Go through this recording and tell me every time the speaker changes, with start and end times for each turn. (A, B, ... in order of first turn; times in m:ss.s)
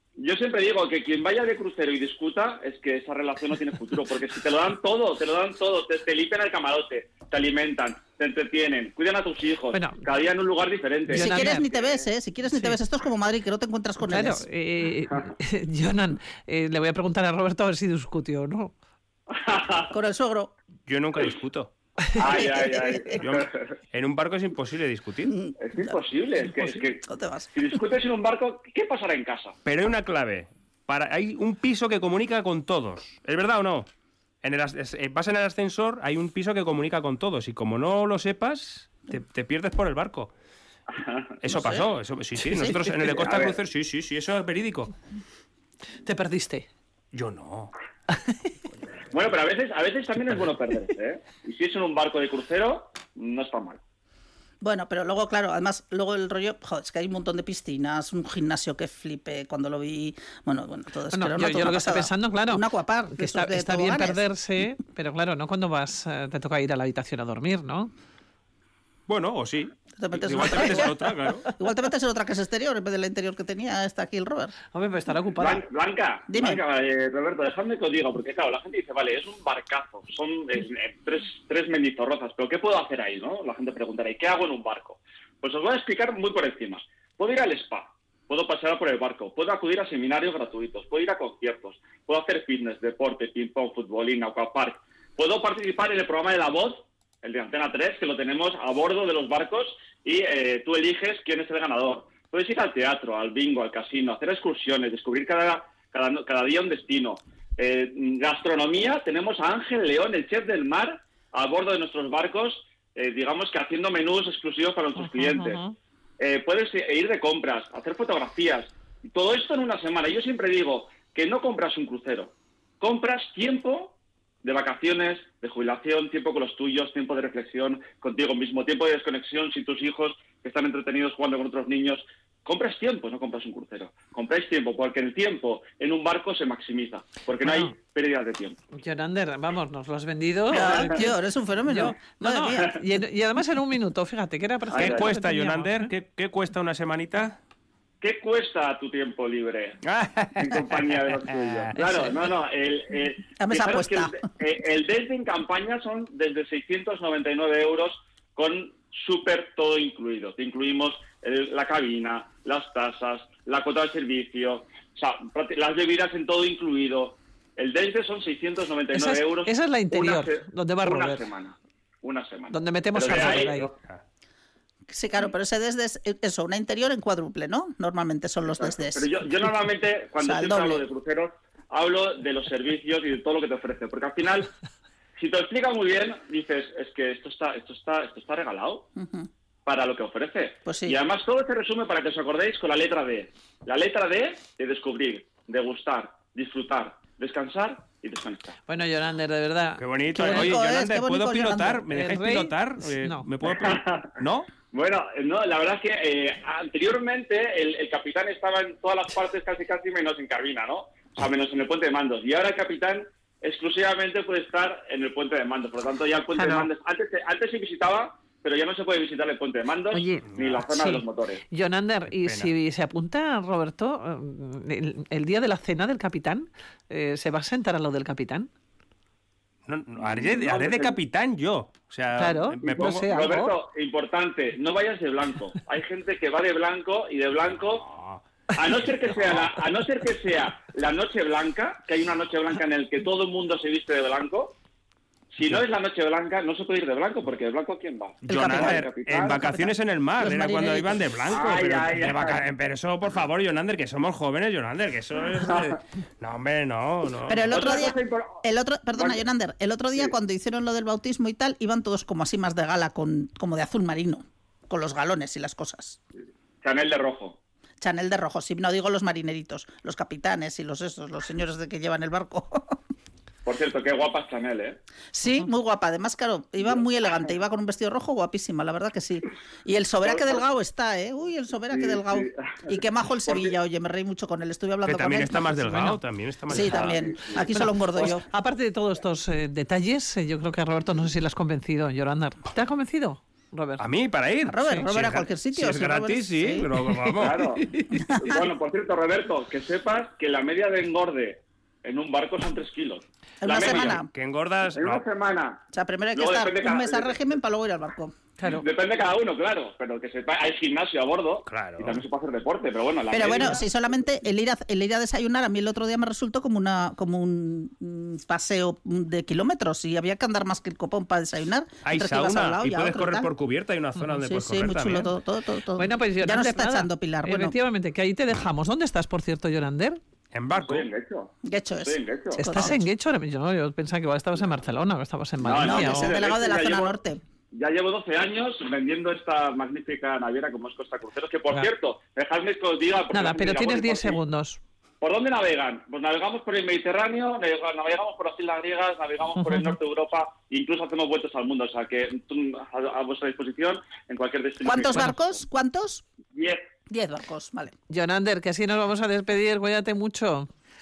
0:00.2-0:12.0 A
0:09.7-0:10.0 B
0:11.1-0:11.6 B
0:11.1-0:14.4 C
0:12.5-0:12.8 B
0:14.0-0:18.7 B
0:19.3-0:19.9 A
0:19.9-0:20.5 C
0:20.9-0:21.7 D
0:22.1-0:23.7 A
0:22.2-0:23.2 C
0:23.2-0:25.3 D
0:25.3-0:27.5 C
0:25.6-0:29.5 A
0:29.6-0:33.9 D
0:34.4-0:40.3 D
0:40.9-0:41.4 A
0:41.4-0:44.9 D
0:41.5-0:41.9 C
0:42.5-0:42.7 C
0:43.0-0:43.6 A
0:46.0-0:46.7 B
0:47.1-0:47.7 D
0:49.1-0:53.8 A
0:54.6-1:04.3 C
1:01.1-1:07.9 B
1:09.1-1:11.4 D
1:10.0-1:14.5 C
1:14.7-1:15.6 B
1:15.4-1:55.6 A
1:16.3-1:16.6 C
1:55.0-1:55.7 B
1:56.2-2:18.6 A
2:17.4-2:17.7 B
2:18.7-2:21.1 B
2:20.5-2:21.0 A
2:20.5-2:22.8 C
2:21.6-2:25.9 B
2:24.7-2:25.1 A
2:24.7-2:27.4 D
2:28.0-2:29.8 A
2:29.8-2:30.9 D
2:30.4-2:53.7 A
2:31.5-2:31.7 D
2:31.8-2:32.0 B
2:33.4-2:34.2 C
2:48.9-2:51.2 B
2:52.5-2:53.7 B
2:53.1-2:54.0 D
2:54.9-2:59.1 C
2:58.4-3:04.5 A
3:00.2-3:00.8 C
3:05.2-3:08.9 A
3:09.0-3:09.3 C
3:09.6-3:18.6 A
3:10.6-3:11.0 C
3:18.7-3:20.6 B
3:19.8-3:24.5 D
3:20.1-3:21.9 C
3:21.9-3:23.2 B
3:23.4-3:24.1 A
3:24.7-3:41.4 A
3:36.3-3:36.7 B
3:39.9-3:48.5 B
3:42.2-3:42.5 D
3:49.6-3:53.1 D
3:50.0-3:51.0 A
3:52.2-3:53.5 B
3:52.6-3:57.9 A
3:57.9-3:58.2 D
3:58.5-4:04.5 A
4:05.3-4:09.4 A
4:08.2-4:17.6 D
4:08.3-4:11.1 C
4:11.3-4:12.4 A
4:15.4-4:15.7 A
4:17.3-4:26.0 C
4:17.5-4:18.4 A
4:19.0-4:19.2 A
4:26.6-4:27.4 A
4:27.8-4:32.8 C
4:33.4-4:34.8 A
4:35.1-4:45.6 C
4:40.0-4:40.4 A
4:41.7-4:43.6 A
4:44.8-4:47.0 D
4:45.6-4:46.0 B
4:46.5-4:48.3 C
4:46.5-4:48.1 A
4:47.5-4:53.8 B
4:53.8-4:57.6 D
4:54.5-4:56.7 C
4:57.1-5:04.0 A
4:57.7-4:58.1 B
4:57.9-4:58.4 C
5:03.4-5:04.1 C
5:03.9-5:05.0 D
5:04.7-5:05.6 A
5:05.7-5:08.1 C
5:06.1-5:07.3 A
5:08.4-5:08.6 B
5:08.4-5:13.6 A
5:11.5-5:12.0 D
5:13.1-5:23.3 C
5:21.8-5:25.1 D
5:24.2-5:27.6 C
5:25.7-5:30.0 B
5:30.3-5:30.9 D
5:30.6-5:32.4 A
5:31.4-5:32.8 C
5:32.4-5:36.2 B
5:35.4-5:37.0 A
5:35.6-5:37.2 C
5:37.5-5:44.2 A
5:43.1-5:44.6 B
5:45.0-5:55.3 A
5:49.4-5:49.7 B
5:54.6-5:56.0 C
5:56.3-5:56.6 A
5:56.9-5:57.7 C
5:57.9-6:00.5 B